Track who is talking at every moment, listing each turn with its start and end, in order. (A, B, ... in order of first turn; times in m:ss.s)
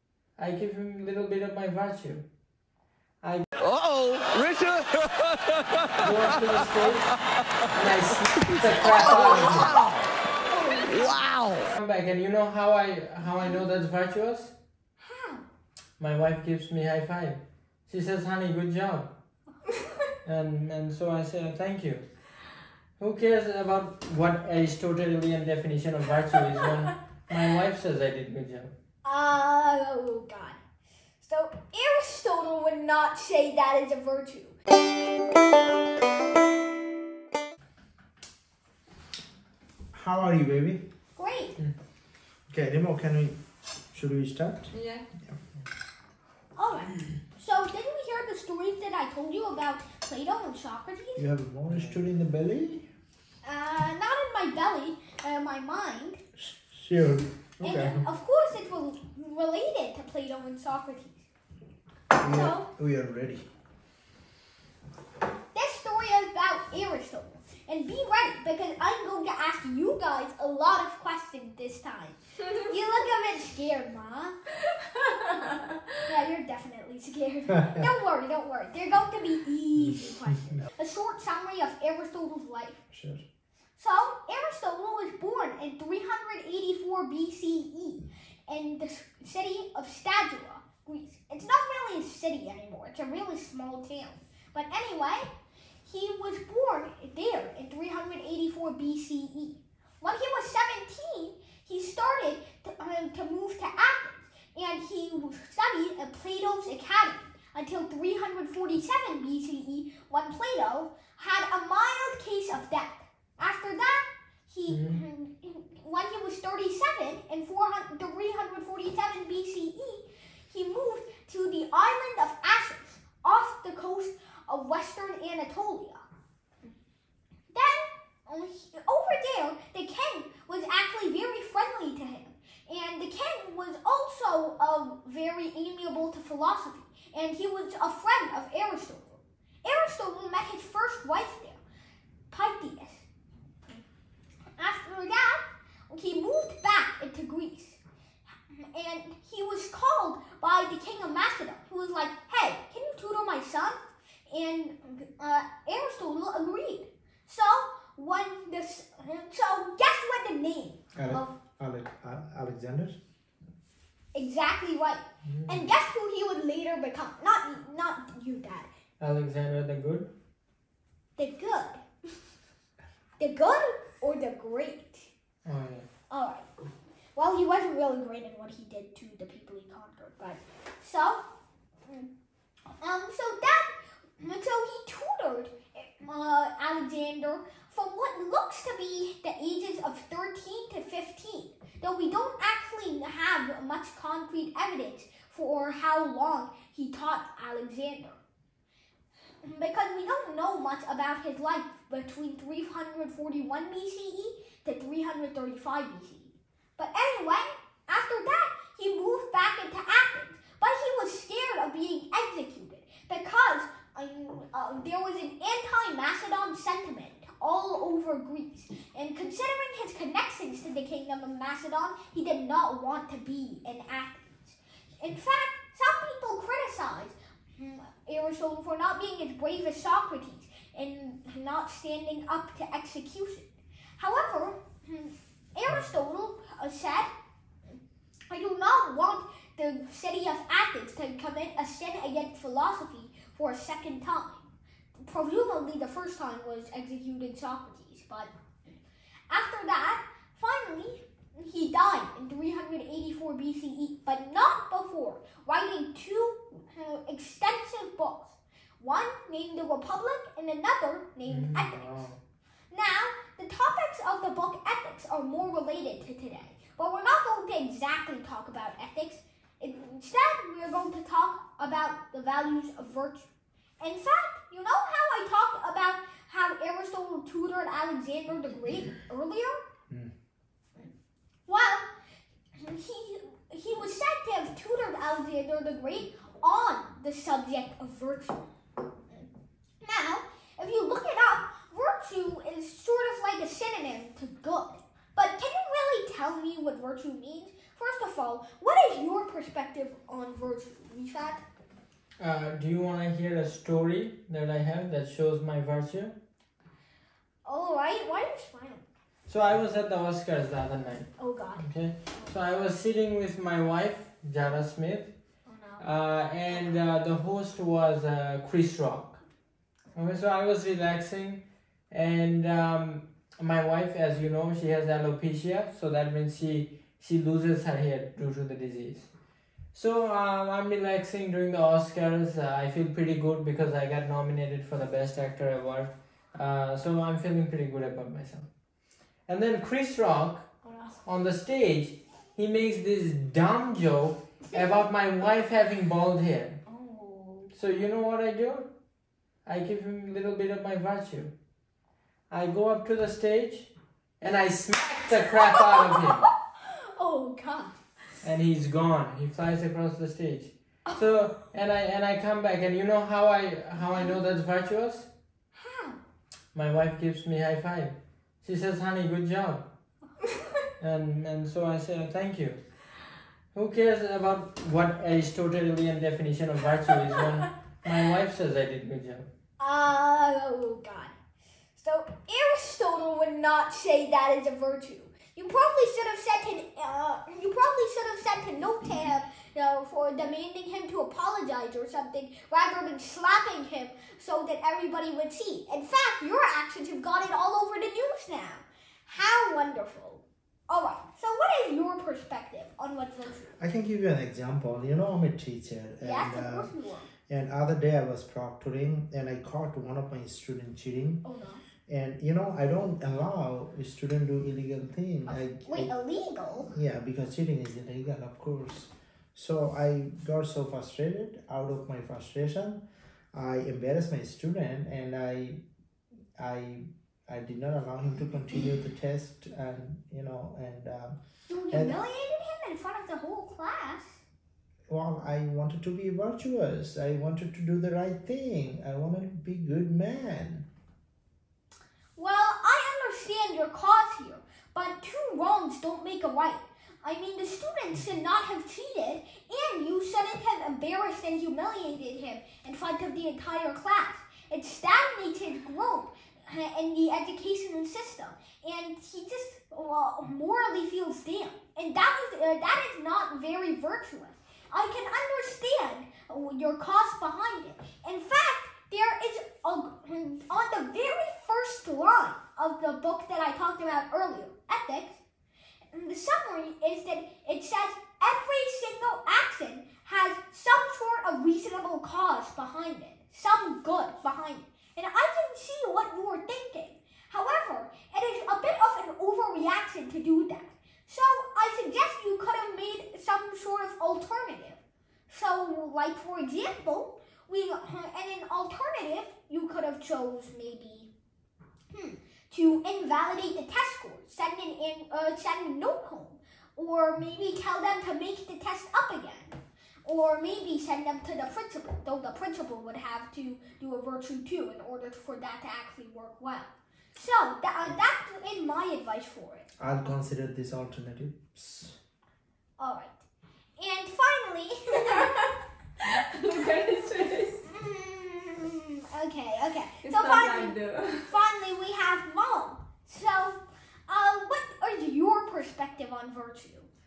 0:00.4-0:02.2 A
0:03.2-0:03.5 A
0:05.9-0:07.1 A
0:07.7-0:09.8 A
0:10.5-0:11.3 B
0:11.6-0:14.5 A
0:15.0-0:15.4 B
0:16.0-0:19.1 A
0:20.2-0:22.0 A
0:23.0-0:28.7 A
0:29.0-0:30.6 B
0:31.2-0:34.6 B
0:39.9-0:40.8 C
0:41.1-0:41.6 B
0:42.5-0:43.4 C
0:43.9-0:44.7 C
0:44.7-0:45.1 D
0:46.6-0:51.2 B
0:51.2-0:52.9 C
0:51.7-0:52.0 A
0:53.4-0:56.2 B
0:56.4-0:58.0 C
0:57.6-1:01.2 B
1:02.2-1:03.4 C
1:02.2-1:02.7 B
1:05.5-1:14.4 B
1:16.0-1:22.8 B
1:22.9-1:23.2 C
1:23.8-1:35.3 B
1:35.8-2:06.0 B
1:54.7-1:55.0 A
2:07.5-2:21.6 B
2:22.3-2:23.0 B
2:24.6-2:27.8 B
2:28.5-2:33.8 B
2:34.3-2:41.3 B
2:40.9-2:43.0 C
2:44.1-2:48.7 B
2:45.2-2:45.7 A
2:49.0-2:50.1 A
2:51.2-2:51.8 B
2:53.2-2:55.1 B
2:55.4-2:55.8 A
2:56.1-2:56.5 B
2:57.2-3:01.2 B
3:02.8-3:18.2 B
3:19.4-3:57.1 B
3:58.3-4:04.5 B
4:05.0-4:08.7 B
4:09.3-4:22.1 B
4:21.3-4:22.2 A
4:22.7-4:33.3 B
4:33.8-4:39.6 B
4:41.4-4:41.9 B
4:42.6-4:48.4 B
4:49.8-5:01.4 B
5:02.2-5:06.2 A
5:07.4-5:08.8 B
5:09.3-5:15.1 A
5:11.2-5:12.3 B
5:15.4-5:15.8 B
5:15.8-5:19.2 A
5:19.9-5:29.1 A
5:29.7-5:38.5 A
5:39.3-5:40.5 A
5:40.6-5:41.0 B
5:41.0-5:46.6 A
5:46.7-5:47.5 B
5:47.5-5:48.7 A
5:49.4-5:51.3 A
5:52.3-5:56.3 A
5:55.4-5:57.8 B
5:58.2-6:05.1 A
6:05.6-6:06.0 B
6:06.5-6:09.7 A
6:10.8-6:12.6 A
6:13.5-6:19.3 A
6:19.6-6:21.1 B
6:21.8-6:43.5 B
6:43.6-6:46.7 C
6:46.0-6:47.1 B
6:47.3-6:51.2 C
6:51.2-6:51.6 B
6:51.8-6:55.9 C
6:55.3-6:56.7 B
6:56.6-7:05.6 C
7:06.4-7:11.2 C
7:11.5-7:14.2 B
7:11.7-7:12.0 C
7:14.9-7:20.7 C
7:22.2-7:55.2 B
7:55.9-8:21.1 B
8:21.9-8:39.7 B
8:39.8-8:42.0 C
8:42.8-8:43.2 B
8:43.8-8:45.5 B
8:46.0-8:47.6 D
8:47.7-8:56.9 B
8:50.0-8:51.4 D